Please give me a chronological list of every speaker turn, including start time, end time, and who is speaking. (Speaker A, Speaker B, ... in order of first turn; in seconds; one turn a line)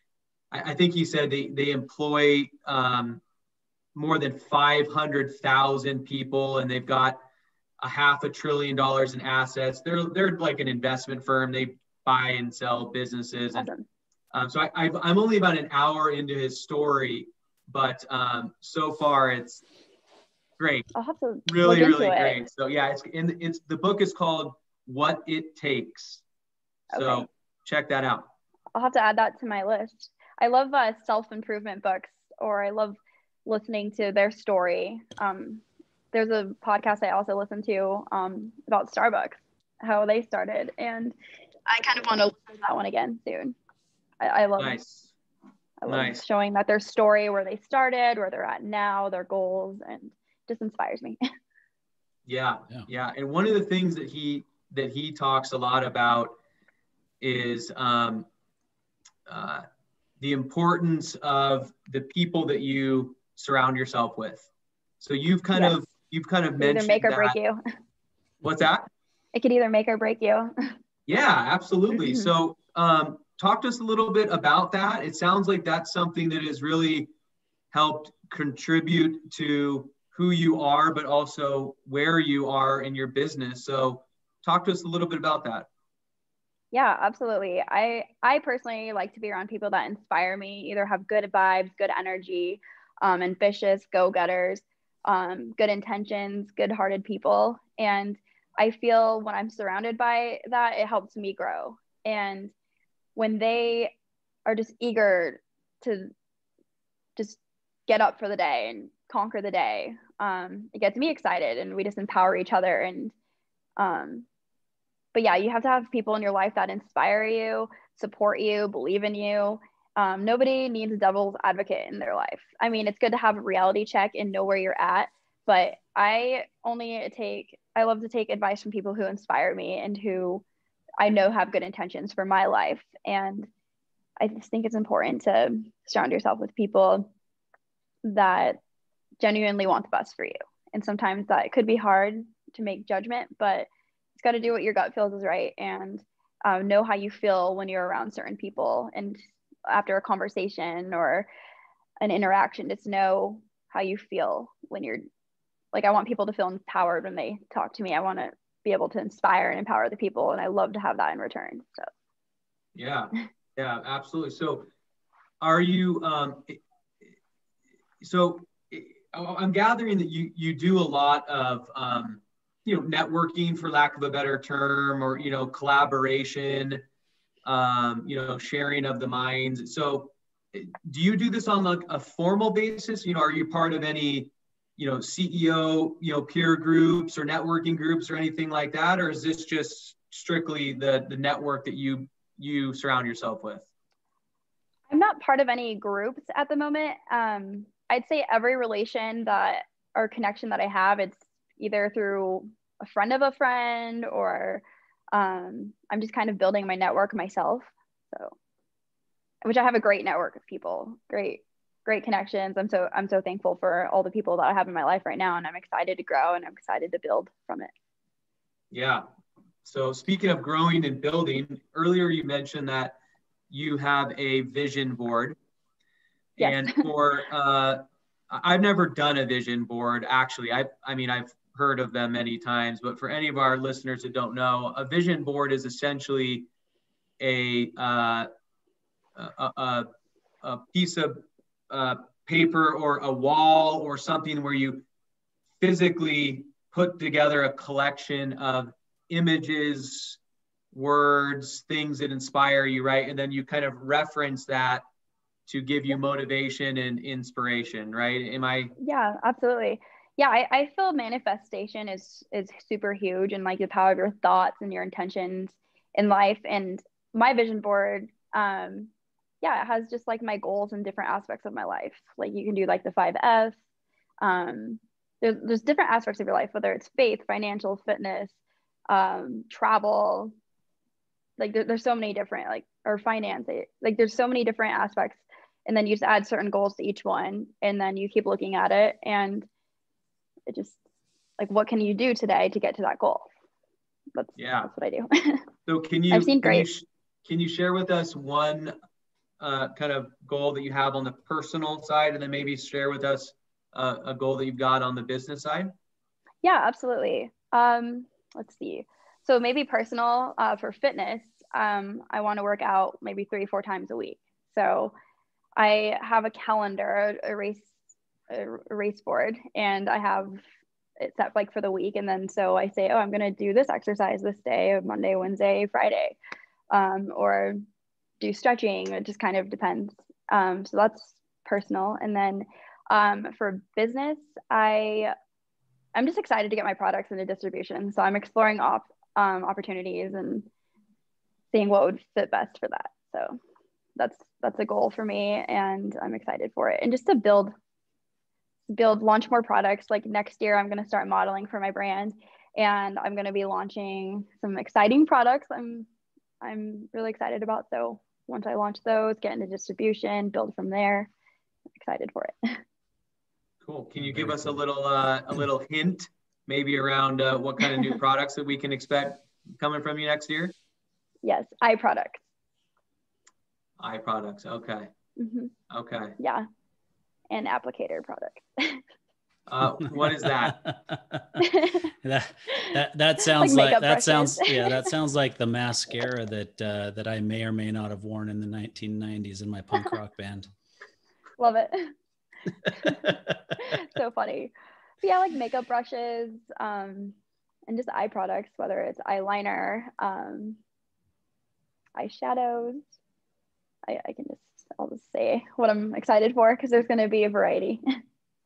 Speaker A: 0.5-3.2
Speaker A: 4.0-7.2
Speaker A: 7.8-13.7
Speaker B: 13.5-13.8
Speaker A: 14.3-19.6
Speaker A: 20.6-20.9
Speaker B: 20.9-22.4
Speaker A: 21.5-26.2
Speaker B: 26.9-27.3
Speaker A: 26.9-28.3
Speaker B: 28.8-35.6
Speaker B: 36.1-41.1
Speaker B: 41.7-43.5
Speaker B: 44.2-44.8
Speaker A: 44.6-45.1
Speaker B: 45.8-51.2
Speaker A: 45.9-46.2
Speaker A: 52.3-56.4
Speaker A: 57.2-58.3
Speaker A: 59.3-59.7
Speaker A: 60.2-64.5
Speaker A: 65.0-67.4
Speaker B: 66.6-67.6
Speaker A: 68.4-68.9
Speaker B: 69.3-70.7
Speaker A: 71.1-77.1
Speaker B: 71.9-72.3
Speaker A: 77.7-85.7
Speaker B: 86.7-102.5
Speaker B: 103.2-103.9
Speaker B: 104.5-106.1
Speaker B: 107.2-113.1
Speaker B: 113.8-114.3
Speaker B: 115.1-130.4
Speaker B: 131.0-133.5
Speaker B: 134.2-137.1
Speaker B: 138.1-138.6
Speaker B: 139.2-151.3
Speaker B: 152.0-155.1
Speaker B: 155.7-161.9
Speaker A: 162.8-164.7
Speaker A: 165.4-166.6
Speaker A: 168.0-176.8
Speaker A: 177.4-193.7
Speaker B: 194.9-208.3
Speaker B: 209.4-217.7
Speaker A: 218.7-219.1
Speaker A: 219.6-223.0
Speaker A: 223.5-225.4
Speaker A: 226.4-236.5
Speaker B: 226.4-226.8
Speaker A: 237.2-238.3
Speaker A: 239.2-239.9
Speaker A: 240.4-244.8
Speaker A: 245.6-250.2
Speaker A: 250.7-254.8
Speaker A: 255.5-258.8
Speaker B: 258.8-268.9
Speaker B: 269.4-273.6
Speaker B: 274.2-278.3
Speaker B: 278.9-280.3
Speaker B: 281.4-289.5
Speaker B: 290.5-290.8
Speaker B: 291.4-293.3
Speaker B: 294.1-295.5
Speaker A: 294.4-294.7
Speaker A: 295.7-298.7
Speaker B: 296.1-296.7
Speaker A: 299.4-305.7
Speaker B: 306.4-314.9
Speaker B: 315.6-317.7
Speaker B: 318.3-320.4
Speaker B: 321.0-326.2
Speaker B: 326.7-327.6
Speaker B: 328.2-335.1
Speaker B: 335.9-340.5
Speaker B: 341.5-343.4
Speaker B: 344.0-347.5
Speaker B: 348.7-355.9
Speaker B: 356.4-361.1
Speaker B: 361.8-362.6
Speaker A: 363.6-370.5
Speaker C: 364.0-364.6
Speaker B: 371.2-372.2
Speaker A: 373.8-374.9
Speaker B: 375.2-375.5
Speaker A: 375.7-376.2
Speaker B: 376.2-376.5
Speaker B: 377.3-378.8
Speaker A: 379.5-380.6
Speaker C: 379.9-381.4
Speaker B: 381.4-381.9
Speaker C: 382.0-390.5
Speaker B: 382.6-384.9
Speaker B: 391.4-391.9
Speaker C: 392.8-393.3
Speaker B: 393.6-397.2
Speaker B: 397.7-400.6
Speaker B: 402.0-402.8
Speaker B: 403.9-407.9